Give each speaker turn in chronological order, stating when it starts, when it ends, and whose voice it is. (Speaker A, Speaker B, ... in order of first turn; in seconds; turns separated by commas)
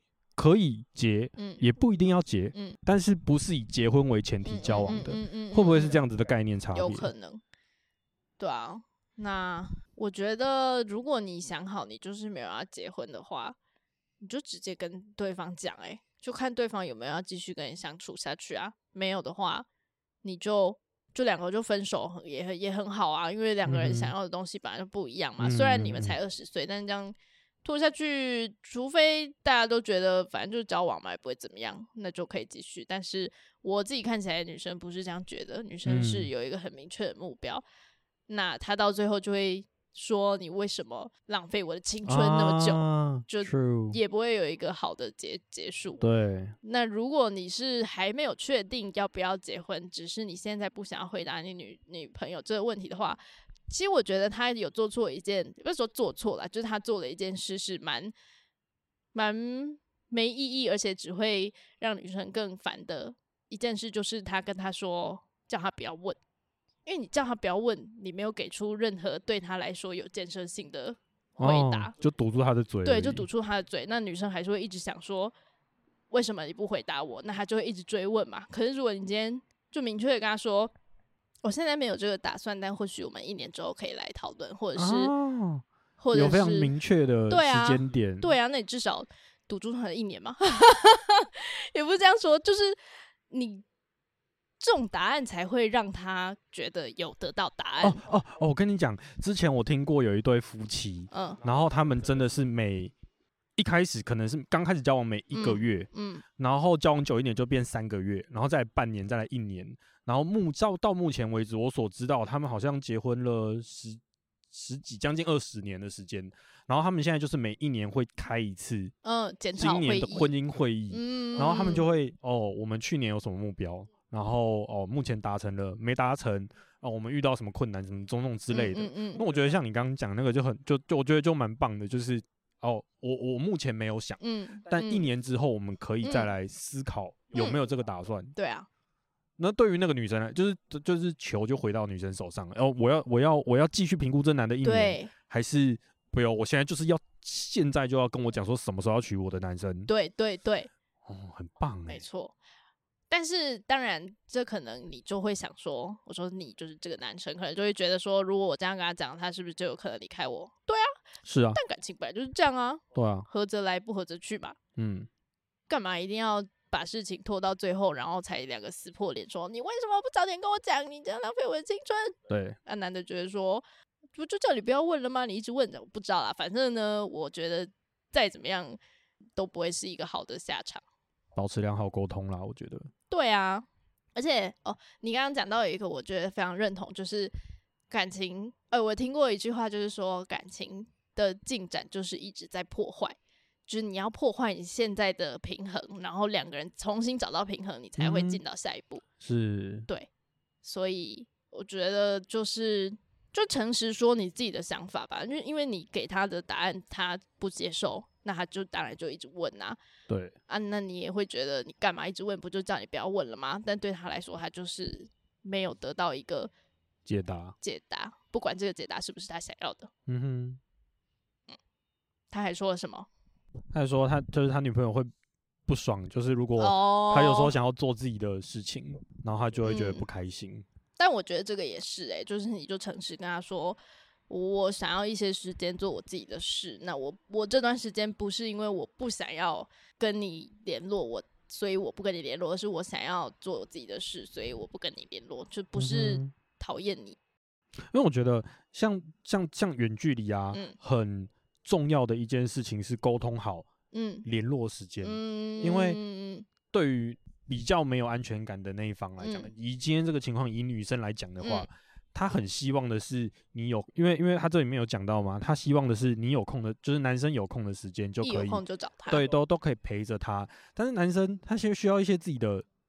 Speaker A: 0.3-7.1, Speaker B: 1.4-1.6, Speaker B: 4.4-6.0, Speaker B: 6.7-7.4, Speaker B: 8.4-13.6, Speaker B: 14.2-19.6, Speaker B: 20.2-37.6, Speaker A: 23.6-24.1, Speaker A: 25.4-26.1, Speaker A: 35.8-36.3, Speaker B: 38.3-46.0, Speaker A: 42.0-44.0, Speaker A: 46.0-46.5, Speaker B: 46.6-58.1, Speaker B: 59.1-66.2, Speaker B: 66.8-71.9, Speaker A: 71.4-73.2, Speaker B: 72.8-75.3, Speaker B: 76.1-80.7, Speaker B: 81.4-85.1, Speaker A: 84.7-88.3, Speaker B: 86.0-86.7, Speaker B: 87.3-92.8, Speaker B: 93.3-93.6, Speaker B: 94.6-98.0, Speaker A: 97.8-102.9, Speaker B: 101.1-101.4, Speaker A: 103.6-118.9, Speaker B: 105.3-106.2, Speaker B: 119.0-120.3, Speaker A: 119.6-138.3, Speaker B: 120.9-121.8, Speaker B: 128.5-129.2, Speaker B: 134.2-135.1, Speaker B: 136.0-136.3, Speaker B: 138.3-138.7, Speaker A: 139.4-149.9, Speaker B: 144.6-145.1, Speaker B: 149.9-150.7, Speaker A: 151.1-152.0, Speaker B: 151.9-152.3, Speaker B: 153.1-160.9, Speaker A: 161.2-161.6, Speaker B: 161.5-164.6, Speaker A: 162.9-163.3, Speaker A: 164.8-165.1, Speaker B: 165.7-178.8, Speaker A: 172.3-172.6, Speaker B: 179.3-180.8, Speaker A: 181.3-182.9, Speaker B: 183.1-187.3, Speaker B: 187.9-193.2, Speaker B: 193.7-199.0, Speaker A: 198.0-198.4, Speaker A: 199.2-199.9, Speaker B: 200.6-209.8, Speaker A: 210.1-210.3, Speaker B: 210.5-216.5, Speaker A: 217.1-217.5, Speaker B: 217.6-219.9, Speaker A: 220.1-220.6, Speaker B: 222.3-223.1, Speaker A: 223.7-225.1, Speaker A: 225.7-230.6, Speaker B: 226.6-227.5, Speaker B: 229.6-230.0, Speaker B: 231.0-247.2, Speaker A: 245.7-246.3, Speaker A: 247.9-253.7, Speaker B: 253.9-254.2, Speaker A: 254.2-256.0, Speaker B: 255.0-256.5, Speaker A: 256.7-272.6, Speaker B: 259.2-259.5, Speaker B: 261.4-261.7, Speaker B: 268.2-269.3